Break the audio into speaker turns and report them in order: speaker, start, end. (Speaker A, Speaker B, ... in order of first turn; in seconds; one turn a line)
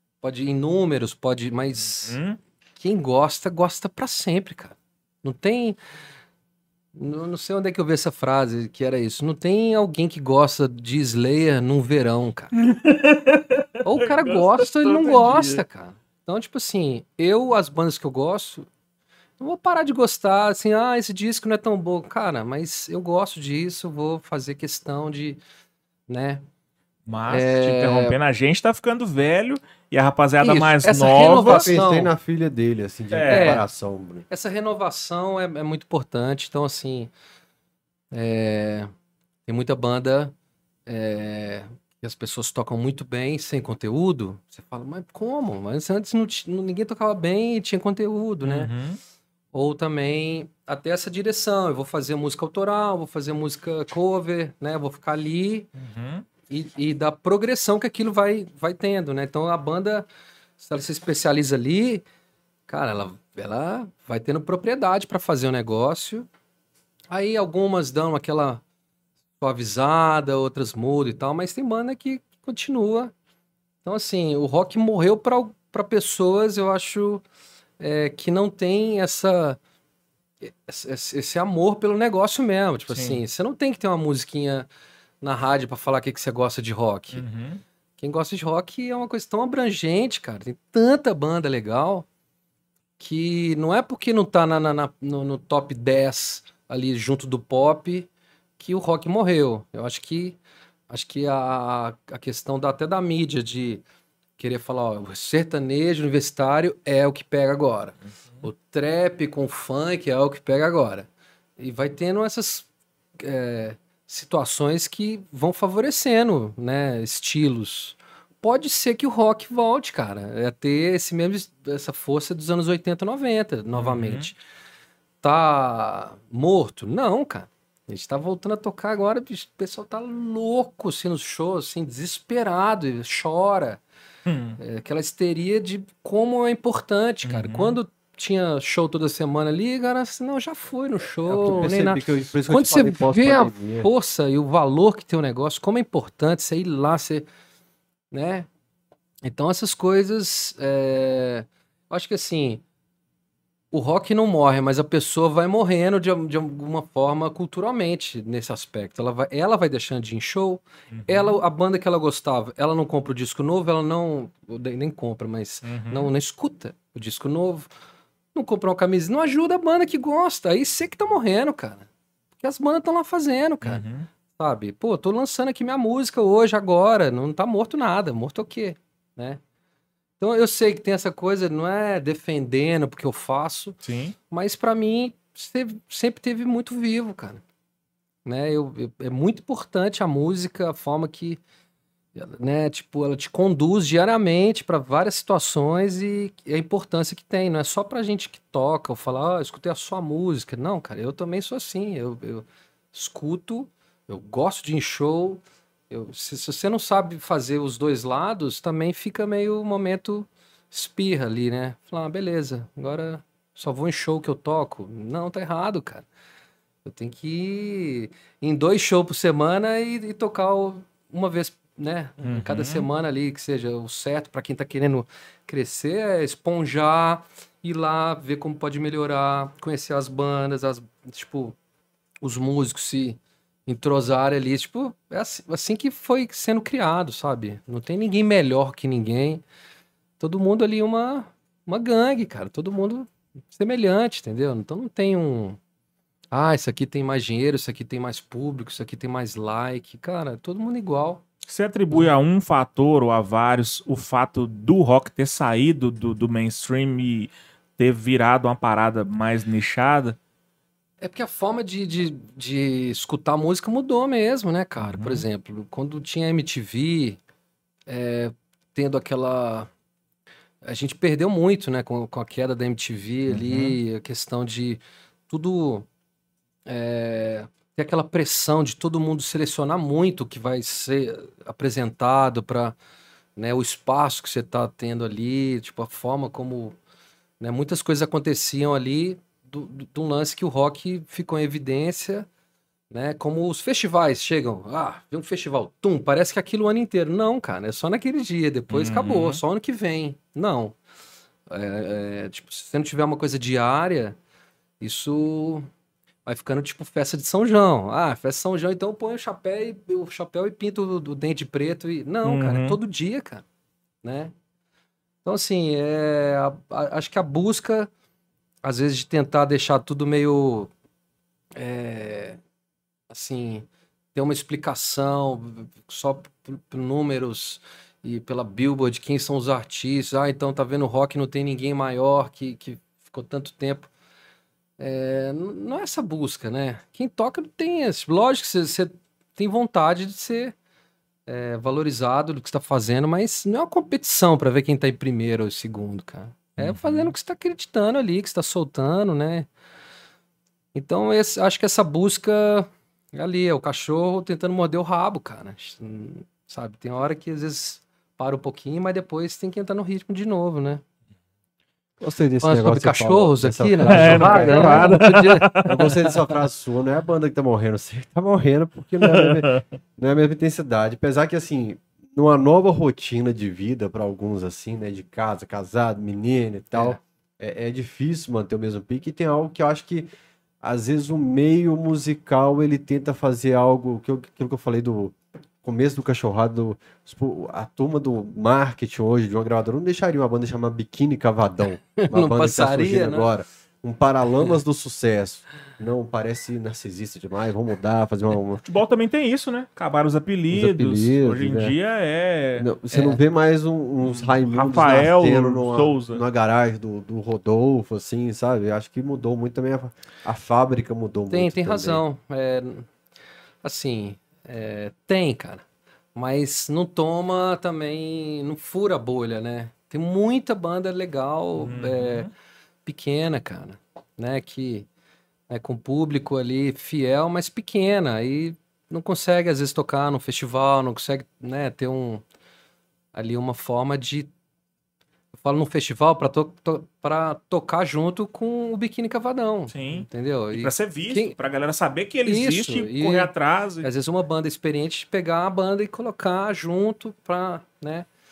Speaker A: 0.2-2.2
Speaker B: 1.8-2.4
Speaker A: 2.8-5.8
Speaker A: 6.9-12.5
Speaker B: 12.6-15.6
Speaker A: 13.8-18.7
Speaker A: 19.4-25.4
Speaker A: 26.1-26.4
Speaker B: 27.1-31.7
Speaker A: 27.3-28.1
Speaker A: 30.4-32.1
Speaker C: 31.4-34.2
Speaker B: 33.1-33.5
Speaker A: 33.3-33.6
Speaker A: 34.3-37.1
Speaker A: 38.1-38.9
Speaker A: 39.5-40.3
Speaker A: 40.9-48.7
Speaker B: 48.4-49.0
Speaker A: 49.5-55.7
Speaker B: 55.8-56.2
Speaker A: 56.5-60.1
Speaker A: 60.6-62.0
Speaker A: 62.7-66.3
Speaker A: 67.1-68.6
Speaker A: 69.4-73.1
Speaker A: 73.8-77.2
Speaker A: 77.8-79.6
Speaker A: 80.4-84.7
Speaker B: 82.9-83.2
Speaker A: 85.2-87.2
Speaker B: 87.1-87.6
Speaker A: 88.0-92.0
Speaker A: 93.0-100.4
Speaker A: 100.9-103.8
Speaker A: 104.4-112.7
Speaker A: 113.2-124.4
Speaker B: 123.7-124.3
Speaker A: 125.2-133.8
Speaker B: 134.2-134.6
Speaker A: 134.6-147.2
Speaker B: 137.2-137.8
Speaker C: 141.3-143.9
Speaker A: 148.1-148.5
Speaker A: 149.2-152.6
Speaker A: 153.7-167.7
Speaker B: 160.9-161.3
Speaker B: 165.6-166.1
Speaker A: 168.3-179.4
Speaker B: 173.6-174.1
Speaker A: 180.2-183.8
Speaker B: 183.8-184.2
Speaker A: 184.3-187.4
Speaker A: 188.2-191.4
Speaker A: 192.1-216.1
Speaker A: 216.8-231.6
Speaker B: 222.2-222.8
Speaker A: 232.2-239.4
Speaker A: 240.2-245.6
Speaker A: 246.3-251.2
Speaker B: 251.4-260.2
Speaker A: 261.0-267.2
Speaker B: 264.8-265.2
Speaker A: 267.9-269.7
Speaker A: 270.6-275.9
Speaker B: 273.3-273.8
Speaker A: 276.6-282.7
Speaker A: 283.4-286.8
Speaker A: 287.4-292.3
Speaker A: 292.9-300.7
Speaker B: 298.7-299.4
Speaker A: 301.5-304.2
Speaker A: 304.8-305.7
Speaker A: 306.2-313.4
Speaker B: 312.2-312.8
Speaker A: 314.0-314.3
Speaker A: 315.2-317.9
Speaker A: 318.6-320.7
Speaker A: 321.6-322.4
Speaker A: 323.1-333.9
Speaker A: 334.8-340.5
Speaker A: 341.3-349.5
Speaker B: 346.6-347.1
Speaker A: 350.7-360.8
Speaker C: 362.0-365.1
Speaker A: 362.4-366.3
Speaker B: 363.9-365.8
Speaker C: 365.6-380.1
Speaker B: 369.0-369.6
Speaker A: 376.7-377.0
Speaker C: 380.6-398.6
Speaker A: 392.0-393.3
Speaker B: 398.6-402.7
Speaker C: 400.5-401.7
Speaker C: 402.6-412.0
Speaker A: 402.9-403.2
Speaker B: 404.0-406.2
Speaker A: 411.3-412.9
Speaker A: 413.6-415.6
Speaker A: 416.1-422.3
Speaker B: 421.6-422.3
Speaker A: 422.9-424.9
Speaker A: 425.5-432.2
Speaker A: 433.1-434.3
Speaker A: 435.4-441.3
Speaker B: 439.7-443.9
Speaker A: 442.2-443.3
Speaker A: 443.8-448.1